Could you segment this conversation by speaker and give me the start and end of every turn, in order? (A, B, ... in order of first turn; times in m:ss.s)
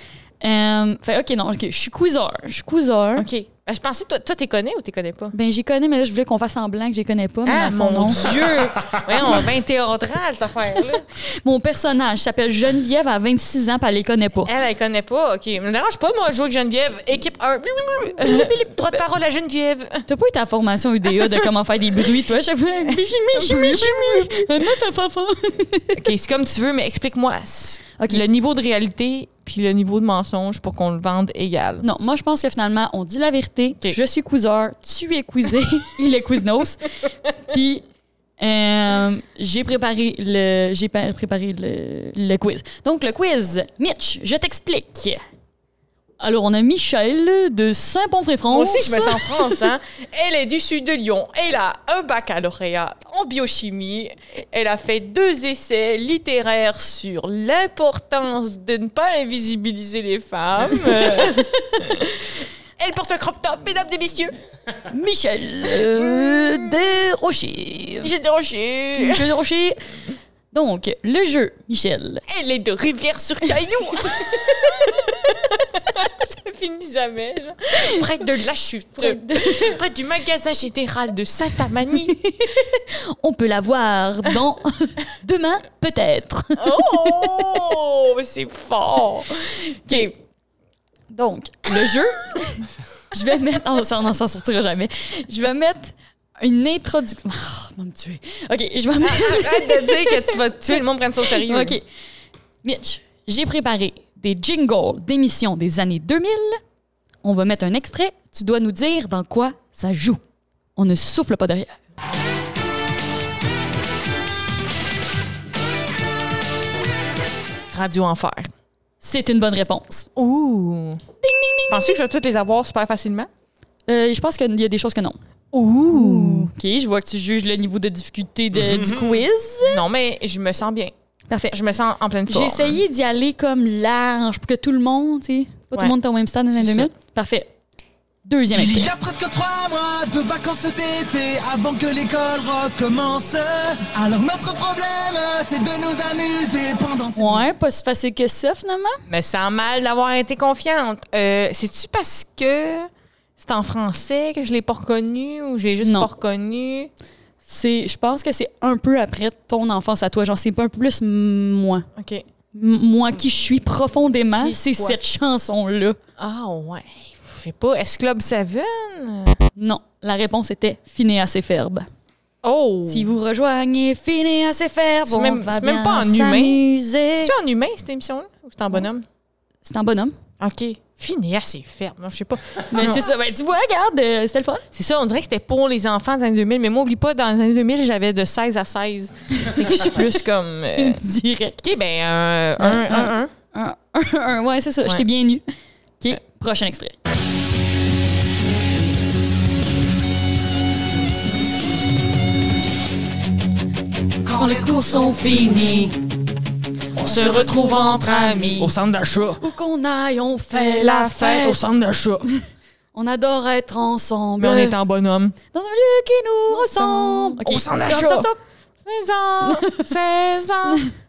0:00.4-0:03.3 A
0:03.2-0:05.3 B
0:05.3-0:08.4 A
0:07.5-0:11.1 B
0:11.2-0:14.5 A
0:14.4-0:20.0 B
0:18.2-0:19.0 A
0:20.1-0:26.0 A
0:23.3-0:24.5 B
0:26.0-0:31.9 B
0:31.8-0:37.8 A
0:38.4-0:45.2 A
0:46.2-0:49.7 A
0:48.5-1:04.3 B
1:00.8-1:01.5 A
1:04.9-1:08.1 A
1:06.0-1:06.7 B
1:08.0-1:09.3 B
1:09.0-1:09.8 A
1:10.5-1:12.2 A
1:12.3-1:22.2 B
1:13.7-1:14.6 A
1:19.0-1:19.8 A
1:22.1-1:27.7 A
1:26.6-1:30.2 B
1:31.1-1:40.8 A
1:39.0-1:41.8 B
1:41.3-1:41.8 A
1:42.6-1:46.6 A
1:47.2-1:50.2 A
1:50.8-1:51.8 A
1:57.7-1:58.5 B
1:59.0-2:00.1 A
2:00.2-2:01.0 B
2:01.2-2:02.0 A
2:01.7-2:03.3 B
2:03.9-2:05.2 A
2:05.5-2:06.5 B
2:05.9-2:09.8 A
2:08.8-2:10.9 B
2:11.3-2:11.6 A
2:11.5-2:12.8 B
2:12.3-2:17.5 A
2:16.6-2:16.9 B
2:18.2-2:18.9 A
2:18.5-2:27.5 C
2:27.2-2:29.0 A
2:29.1-2:36.9 B
2:35.8-2:36.1 A
2:37.4-2:41.9 A
2:42.0-2:42.2 B
2:42.6-2:46.0 A
2:44.3-2:45.0 B
2:46.2-2:49.4 B
2:49.6-2:51.9 A
2:52.4-2:53.1 B
2:52.9-2:57.3 A
2:55.1-2:56.6 B
2:57.2-2:59.0 B
2:59.6-3:00.2 A
3:00.4-3:03.0 B
3:02.7-3:04.6 A
3:04.7-3:11.0 B
3:09.4-3:10.1 A
3:10.8-3:11.6 A
3:11.6-3:13.3 B
3:12.6-3:15.4 A
3:16.0-3:17.0 A
3:24.2-3:25.9 C
3:24.7-3:25.9 A
3:27.0-3:28.7 B
3:27.1-3:27.4 C
3:28.6-3:29.4 C
3:29.4-3:31.6 A
3:30.5-3:31.6 B
3:31.2-3:32.3 C
3:32.9-3:34.8 A
3:34.4-3:35.4 B
3:35.5-3:38.4 A
3:36.5-3:38.3 B
3:38.8-3:40.9 B
3:39.4-3:39.9 A